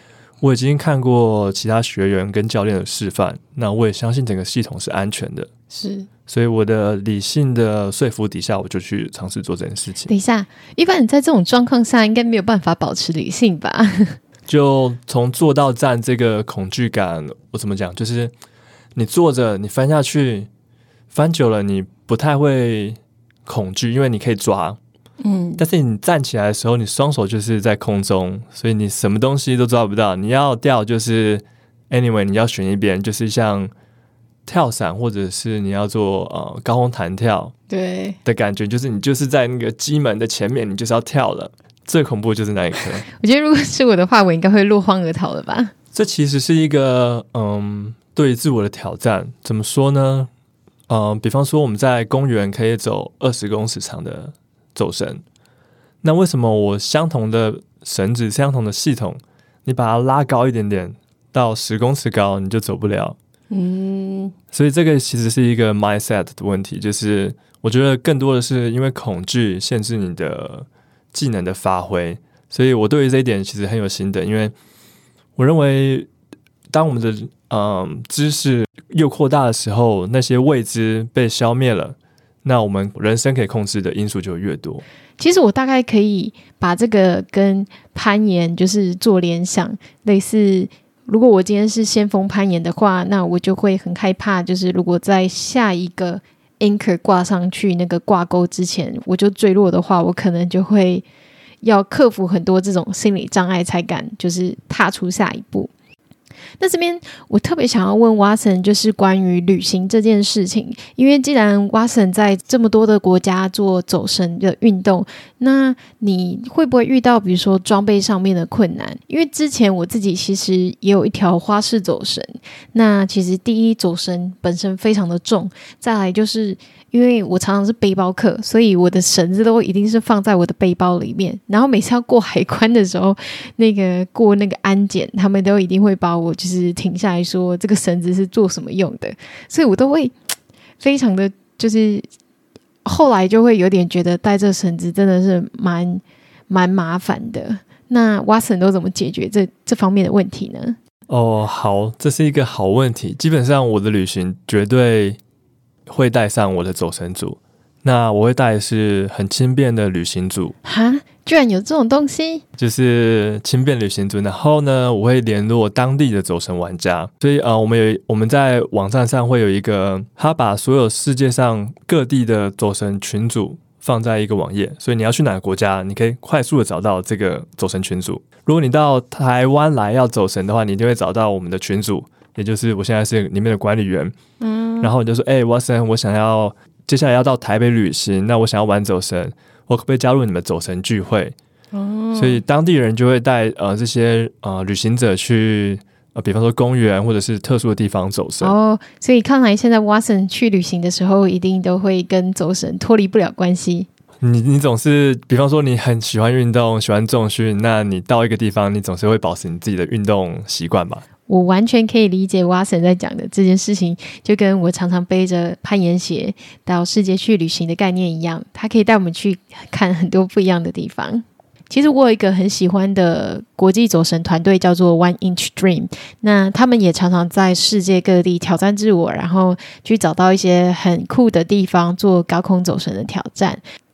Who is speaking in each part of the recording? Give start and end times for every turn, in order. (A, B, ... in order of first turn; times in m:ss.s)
0:00.4-0:05.5 A
0:05.7-0:06.1 B
0:06.3-0:10.1 A
0:10.1-0:14.2 B
0:14.5-0:18.3 A
0:19.0-0:20.5 A
0:21.1-0:24.8 A
0:25.2-0:25.6 B
0:25.6-0:33.7 A
0:34.5-0:37.6 A
0:37.7-0:38.2 B
0:38.2-0:43.1 A
0:43.1-0:45.7 B
0:45.9-0:50.3 A
0:50.9-0:55.2 A
0:56.0-1:03.2 A
1:03.5-1:04.3 B
1:04.5-1:14.5 A
1:15.4-1:16.1 A
1:16.7-1:24.8 A
1:25.2-1:41.0 B
1:41.6-1:45.7 B
1:46.6-2:20.2 B
2:20.8-2:22.1 B
2:22.8-2:30.8 B
2:31.1-2:35.2 A
2:35.9-2:40.5 A
2:40.6-2:42.4 B
2:42.6-3:04.2 A
3:04.4-3:04.9 B
3:04.8-3:11.4 A
3:11.7-3:12.4 B
3:12.1-3:18.5 A
3:18.4-3:23.9 B
3:24.2-3:31.0 A
3:31.3-3:53.6 B